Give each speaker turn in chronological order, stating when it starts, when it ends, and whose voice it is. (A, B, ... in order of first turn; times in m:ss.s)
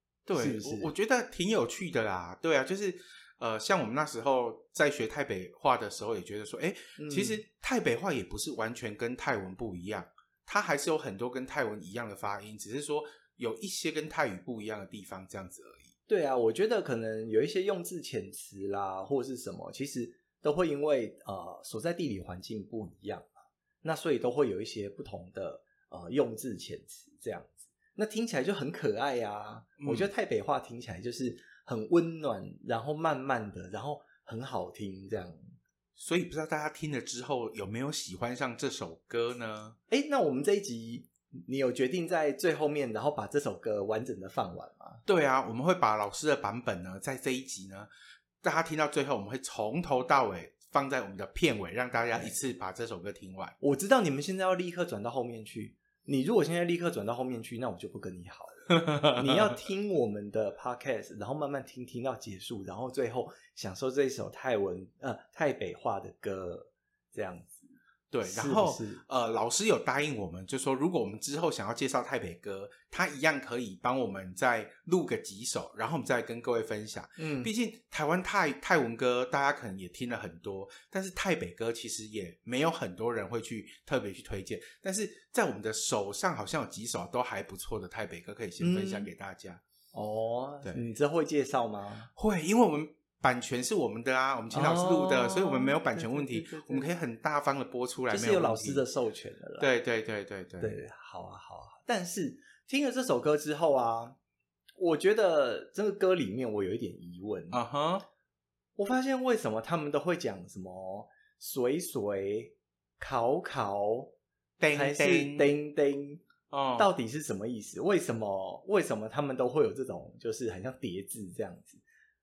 0:00.2-0:15.9 A
0:00.3-0:00.9 B
0:07.0-0:07.4 B
0:16.1-0:35.5 B
0:29.8-0:30.1 A
0:36.0-0:39.8 A
0:39.9-0:45.0 B
0:45.0-0:47.9 A
0:48.4-0:53.5 A
0:53.6-1:07.7 B
0:58.7-0:59.5 A
1:08.1-1:29.6 A
1:08.2-1:09.0 B
1:17.2-1:17.5 B
1:28.6-1:29.1 B
1:29.9-1:32.1 B
1:32.2-1:38.8 A
1:34.5-1:36.9 B
1:38.1-1:39.7 B
1:39.6-1:40.8 A
1:40.6-1:44.2 B
1:44.8-1:47.6 B
1:47.5-1:48.0 A
1:48.8-1:54.1 B
1:54.6-1:55.5 A
1:54.7-1:56.2 B
1:56.5-1:56.9 A
1:56.8-2:01.8 B